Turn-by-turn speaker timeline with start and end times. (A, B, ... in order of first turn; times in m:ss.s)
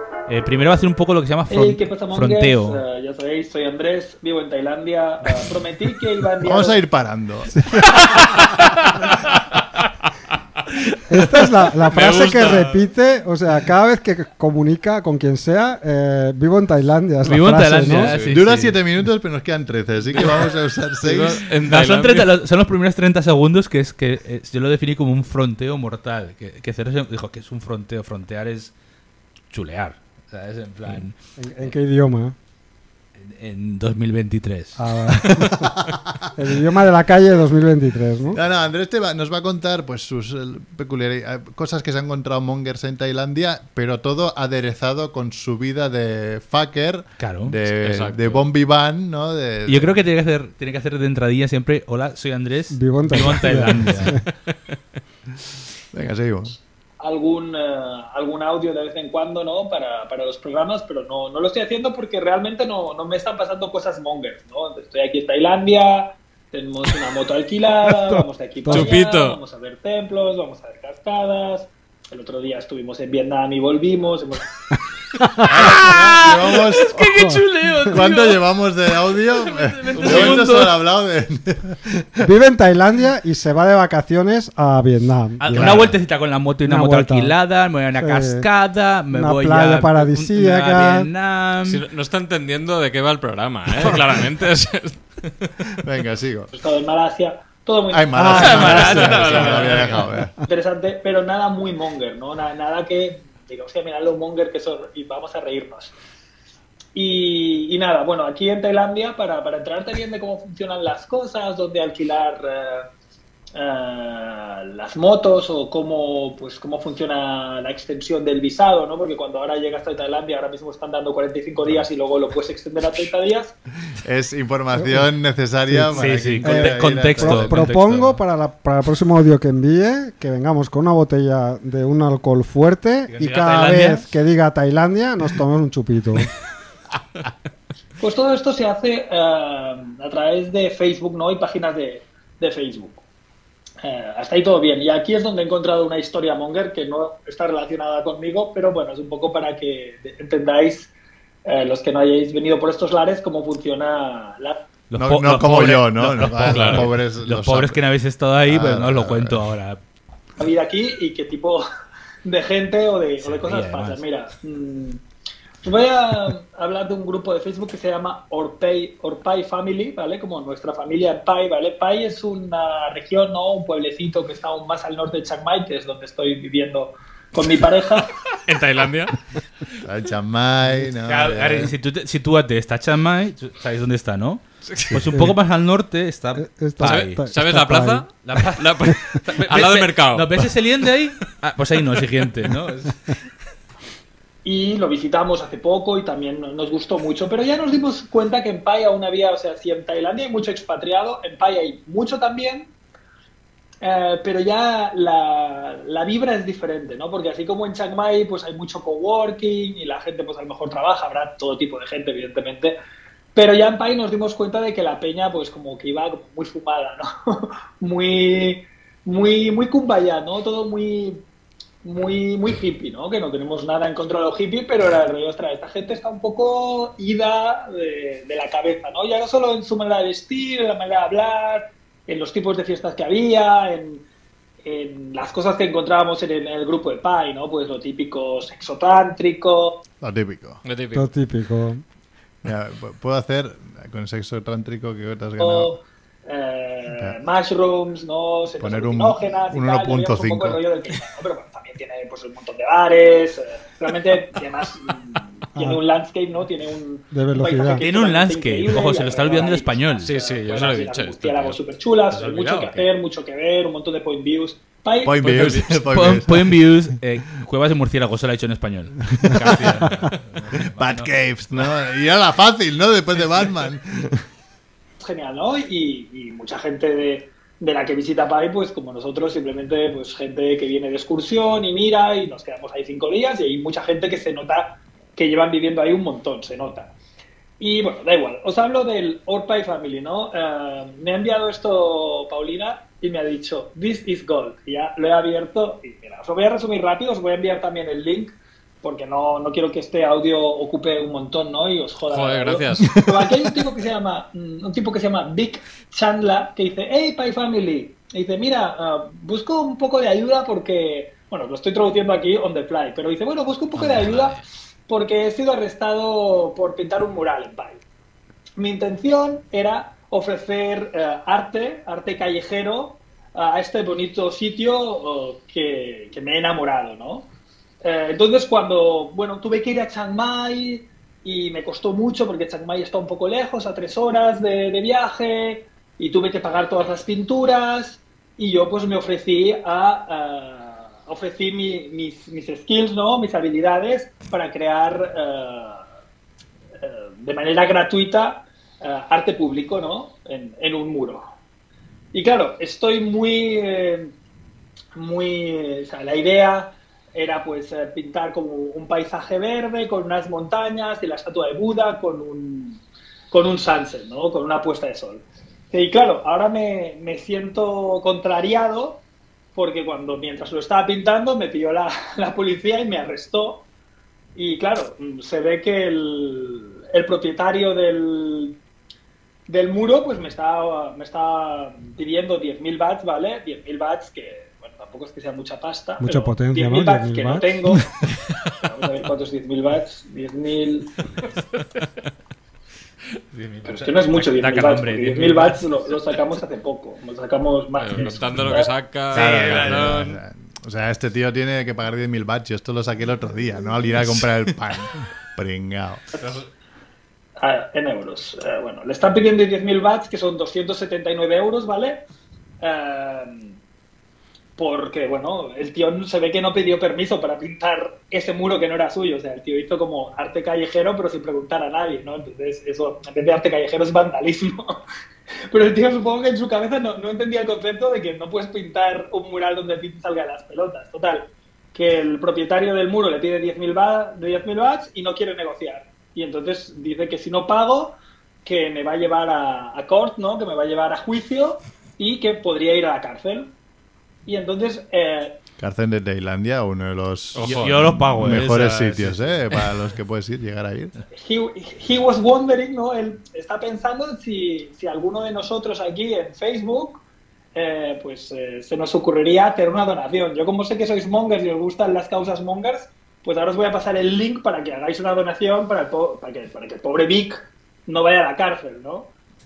0:00.3-0:02.8 A
0:01.5-0:06.8 B
0:06.4-0:08.2 C
0:07.5-0:08.0 D
0:11.1-0:18.2 D
0:11.4-0:12.9 E
0:17.2-0:18.8 A
0:17.9-0:18.4 E
0:18.1-0:21.5 C
0:21.0-0:22.3 E
0:21.6-0:28.7 A
0:29.5-0:31.1 A
0:31.4-0:32.4 D
0:33.2-0:34.8 A
0:34.8-0:35.7 D
0:35.2-0:36.3 C
0:36.3-0:38.4 D
0:38.3-0:49.9 C
0:47.2-0:47.5 A
0:47.7-0:48.4 E
0:49.6-0:54.2 A
0:52.7-0:54.2 D
0:55.9-0:56.6 C
0:57.0-1:14.5 B
1:08.2-1:09.0 D
1:08.7-1:09.4 E
1:15.4-1:15.9 D
1:15.4-1:18.4 A
1:15.5-1:17.0 C
1:16.9-1:17.9 D
1:17.8-1:22.2 C
1:19.0-1:20.8 A
1:20.0-1:20.4 E
1:22.2-1:25.9 D
1:25.4-1:31.8 A
1:25.5-1:25.9 C
1:26.6-1:27.4 D
1:27.9-1:28.5 D
1:29.1-1:31.1 D
1:31.6-1:35.7 E
1:35.8-1:36.5 C
1:36.5-1:45.9 B
1:37.9-1:40.3 C
1:38.2-1:39.1 D
1:38.3-1:39.9 A
1:38.8-1:40.1 E
1:46.9-1:52.9 B
1:53.5-2:03.5 B
2:03.9-2:07.7 C
2:04.7-2:05.1 D
2:05.7-2:16.3 D
2:05.9-2:08.2 A
2:13.1-2:14.1 A
2:18.0-2:23.0 B
2:23.8-2:30.9 B
2:31.4-2:34.6 B
2:34.9-2:39.8 A
2:34.9-2:37.8 C
2:36.4-2:36.9 E
2:38.4-2:39.5 C
2:40.4-2:41.6 B
2:42.2-2:45.0 B
2:43.2-2:44.0 A
2:45.6-2:58.1 B
2:58.0-2:59.2 E
2:59.8-3:01.7 C
3:01.0-3:07.2 A
3:04.6-3:04.9 E
3:06.4-3:08.0 D
3:06.8-3:10.5 E
3:08.2-3:13.0 A
3:14.4-3:22.7 B
3:23.8-3:32.7 B
3:33.3-3:41.2 B
3:41.8-3:54.0 B
3:54.6-3:59.8 B
4:00.0-4:00.6 C
4:00.6-4:01.1 E
4:00.9-4:01.8 D
4:02.4-4:05.7 C
4:05.4-4:25.5 B
4:08.6-4:10.6 C
4:15.5-4:15.8 D
4:17.1-4:17.8 D
4:17.8-4:20.1 A
4:20.0-4:21.6 E
4:22.1-4:22.8 E
4:25.0-4:26.8 C
4:25.2-4:25.8 E
4:25.9-4:31.1 A
4:29.1-4:34.2 C
4:35.0-4:46.9 B
4:47.6-5:17.8 B
5:02.1-5:03.0 E
5:02.8-5:03.4 C
5:13.8-5:14.4 E
5:18.6-5:27.3 B
5:27.8-5:45.8 B
5:46.8-5:51.2 B
5:52.1-5:54.1 B
5:54.9-6:09.0 B
6:09.5-6:13.6 B
6:14.4-6:18.6 B
6:19.5-6:27.9 B
6:26.0-6:27.6 D
6:28.6-6:30.9 B
6:33.3-6:35.6 A
6:33.6-6:38.7 B
6:37.8-6:40.2 E
6:39.1-6:46.0 C
6:39.1-6:40.0 A
6:47.4-6:52.0 B
6:52.6-6:53.6 B
6:54.6-7:04.8 B
7:05.5-7:23.5 B
7:24.2-7:25.4 B
7:25.6-7:30.9 C
7:27.3-7:27.9 E
7:27.4-7:29.5 A
7:31.1-7:37.0 B
7:37.5-7:49.1 B